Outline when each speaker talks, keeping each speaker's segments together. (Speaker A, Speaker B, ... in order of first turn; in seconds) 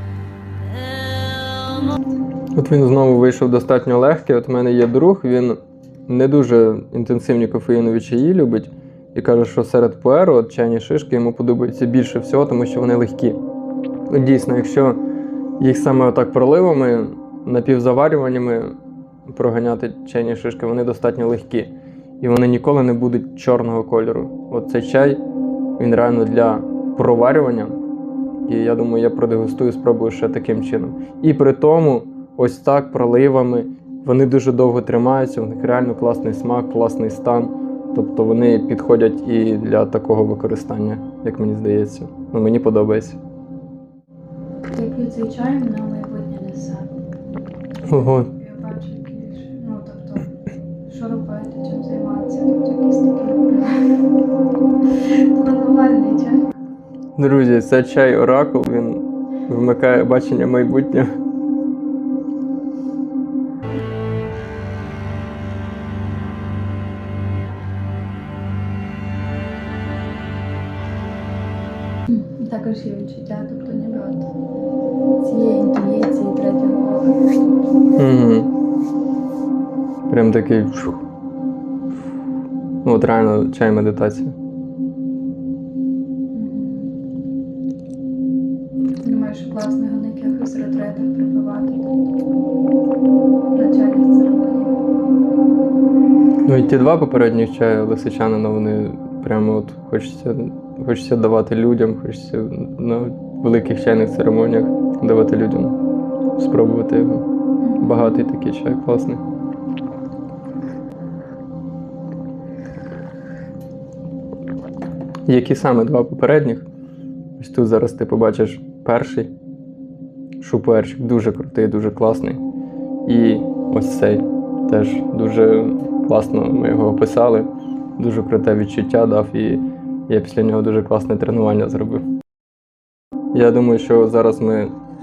Speaker A: 2.5-13.4, 14.1-15.0, 15.6-18.7, 19.3-25.2, 25.8-27.8, 28.5-43.2, 47.9-48.3, 57.2-61.1, 78.0-78.5, 80.1-81.0, 82.8-84.3, 96.4-105.8, 106.4-107.2, 107.8-109.2, 115.3-116.7, 117.4-119.3, 120.4-122.4, 123.0-132.0, 133.3-134.7
Speaker B: 44.7-46.9, 47.9-50.3, 50.8-53.8, 55.1-56.5, 72.1-74.3, 75.2-77.2, 86.3-86.9, 89.0-91.9, 93.5-94.7, 107.6-108.2